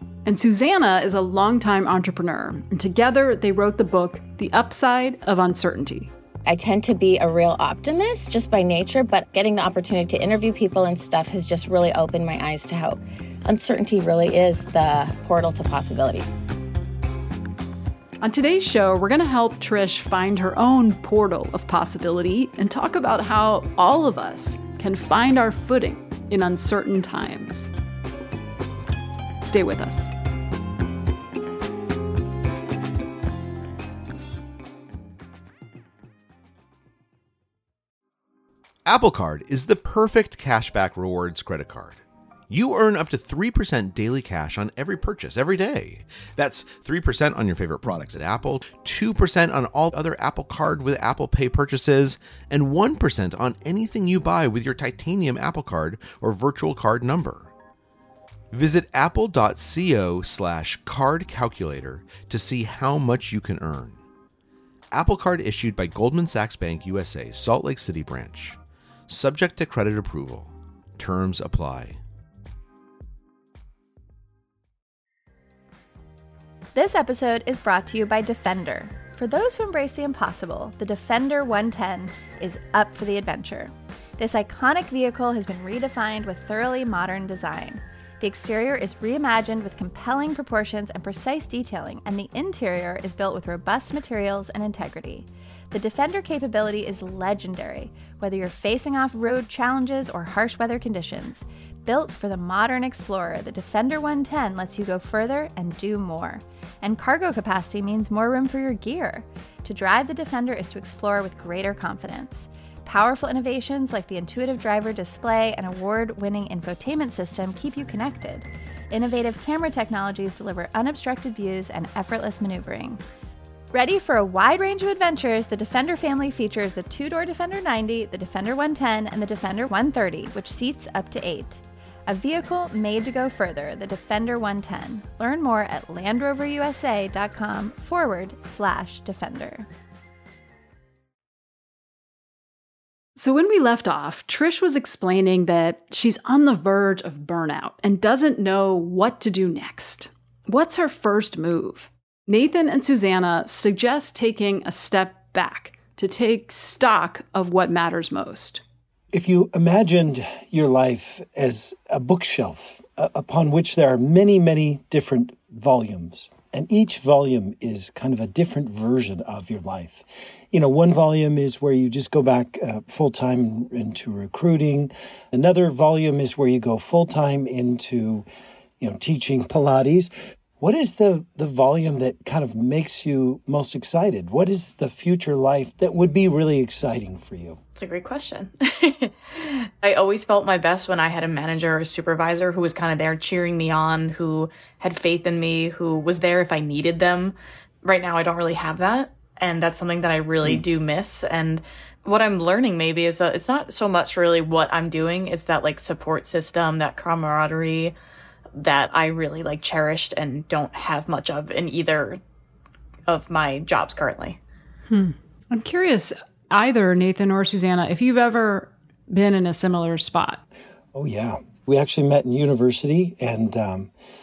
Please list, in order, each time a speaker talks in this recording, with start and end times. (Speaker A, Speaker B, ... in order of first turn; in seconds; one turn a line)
Speaker A: 0.2-6.1
Speaker B: 6.5-16.3
Speaker A: 18.2-27.7
Speaker A: 29.4-30.1
Speaker C: 38.9-57.5
Speaker C: 58.5-64.0
Speaker C: 64.9-72.0
Speaker D: 76.7-123.0
Speaker D: 123.7-139.7
Speaker A: 143.2-158.6
Speaker E: 159.1-178.3
Speaker E: 178.8-187.6
Speaker F: 187.8-207.9
Speaker F: 208.6-212.2
Speaker F: 213.1-214.4
Speaker A: 214.9-220.4
Speaker E: 220.9-223.9